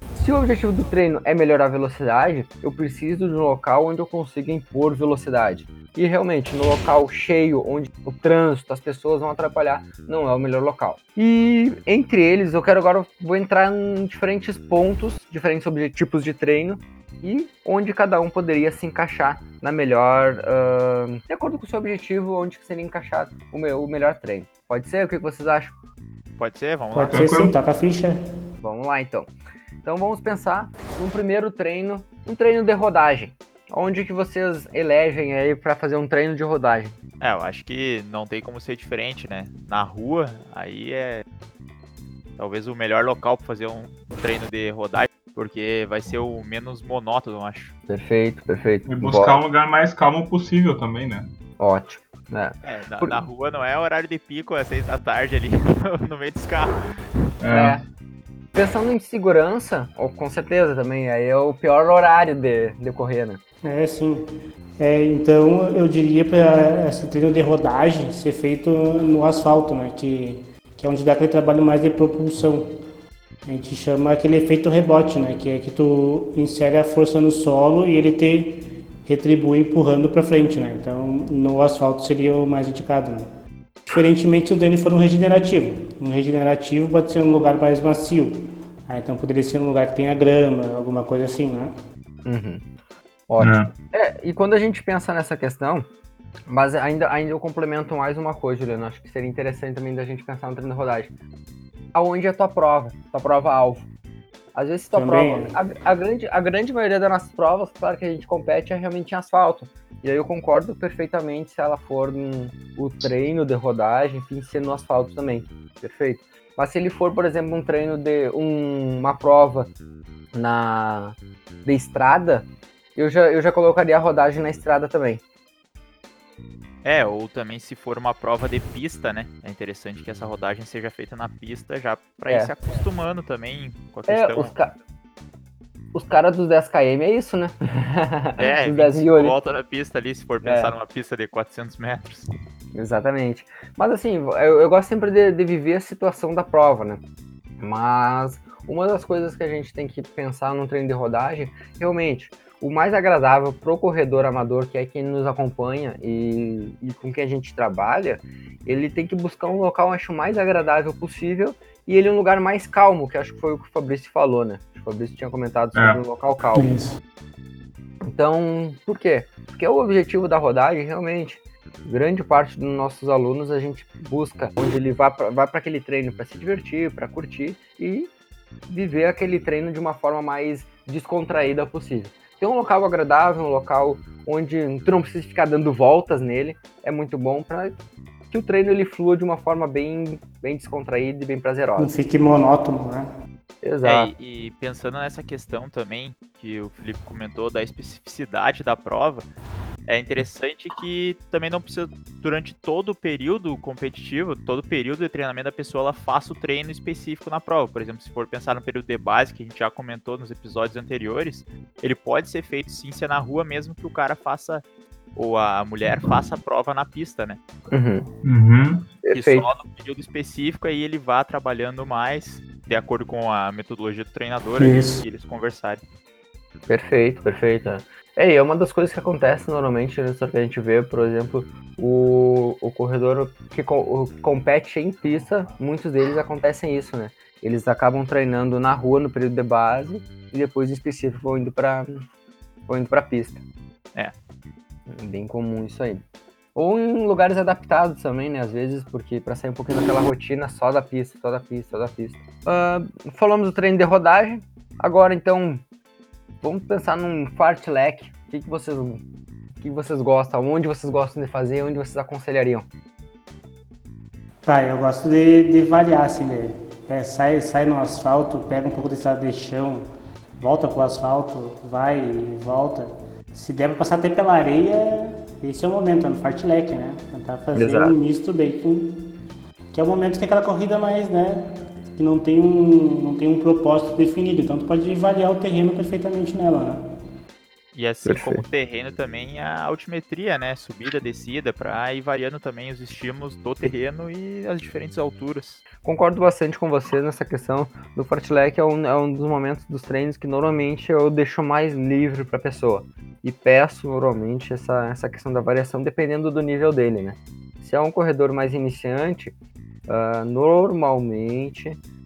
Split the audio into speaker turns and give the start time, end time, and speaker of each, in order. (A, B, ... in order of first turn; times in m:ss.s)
0:00.1-0:25.7 A
0:26.4-0:27.3 B
0:26.9-0:28.2 C
0:27.0-0:27.5 D
0:28.6-0:29.3 A
0:29.8-0:36.9 A
0:37.2-0:41.2 B
0:42.4-0:47.7 B
0:47.9-0:49.4 A
0:48.8-0:51.3 D
0:51.6-0:53.2 A
0:52.6-0:57.0 B
0:57.4-0:57.8 D
0:57.5-0:57.8 A
0:58.5-1:03.4 A
1:03.6-1:04.2 C
1:04.8-1:12.6 C
1:13.4-1:23.2 C
1:23.9-1:31.7 C
1:32.2-1:32.6 A
1:33.3-1:35.9 A
1:33.4-1:33.7 D
1:36.5-1:41.1 A
1:41.9-1:43.8 A
1:44.5-1:59.7 A
1:44.9-1:45.5 C
2:00.3-2:05.2 A
2:06.8-2:14.5 B
2:14.1-2:14.7 A
2:15.9-2:19.3 A
2:18.4-2:22.3 B
2:20.4-2:20.7 A
2:22.7-2:27.0 A
2:27.6-2:46.7 A
2:45.7-2:46.0 D
2:46.5-2:46.9 C
2:48.1-2:58.1 A
2:58.7-3:07.8 A
3:08.3-3:11.9 A
3:11.8-3:13.1 C
3:13.6-3:14.1 A
3:13.8-3:19.3 B
3:19.9-3:34.6 B
3:35.2-3:37.4 B
3:37.7-3:38.0 A
3:38.2-3:38.9 D
3:39.0-3:39.5 A
3:39.1-3:45.8 B
3:44.6-3:45.0 C
3:46.7-4:02.0 A
4:02.7-4:03.4 A
4:04.9-4:06.0 A
4:06.5-4:15.6 A
4:16.4-4:19.0 A
4:19.6-4:22.7 A
4:24.4-4:29.8 C
4:30.4-4:38.9 C
4:37.5-4:37.9 A
4:39.7-4:41.4 C
4:42.0-4:46.8 C
4:47.7-4:55.6 B
4:48.0-4:48.4 A
4:55.8-5:09.3 A
5:09.9-5:11.8 A